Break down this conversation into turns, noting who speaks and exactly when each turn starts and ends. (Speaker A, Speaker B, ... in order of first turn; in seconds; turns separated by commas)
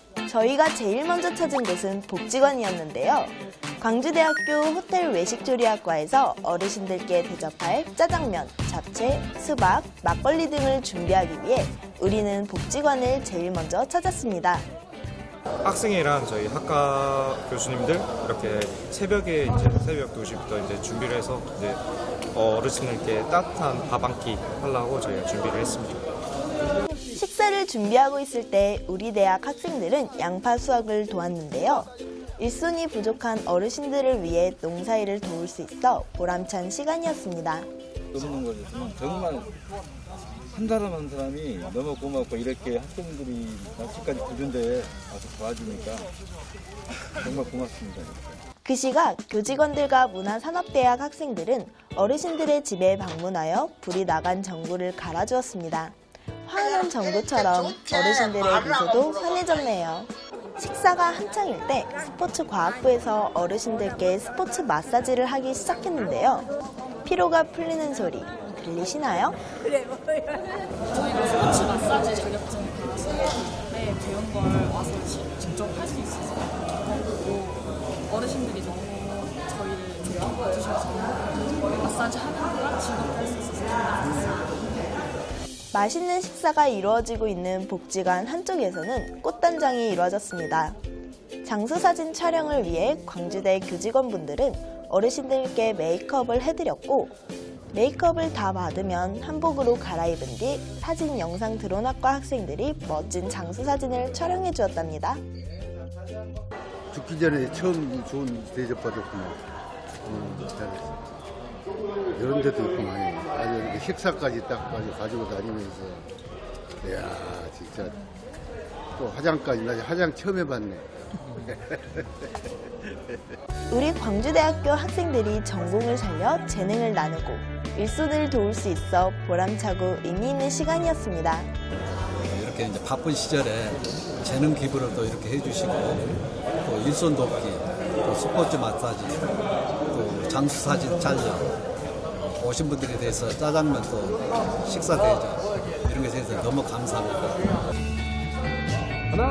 Speaker A: 0.3-14.7, Speaker B: 15.6-21.8, Speaker B: 22.3-26.0, Speaker A: 27.1-37.7, Speaker C: 38.1-39.5, Speaker C: 40.5-46.1, Speaker C: 47.0-48.4, Speaker A: 48.6-66.5, Speaker A: 67.0-69.4, Speaker D: 70.1-84.7, Speaker A: 85.7-90.8, Speaker A: 91.4-97.1, Speaker A: 97.7-105.2, Speaker E: 106.9-109.4, Speaker E: 110.0-111.0, Speaker E: 112.1-116.1, Speaker E: 116.8-118.0, Speaker E: 119.0-123.2, Speaker A: 123.7-131.5, Speaker F: 132.1-139.3, Speaker F: 139.9-141.5, Speaker F: 142.3-147.4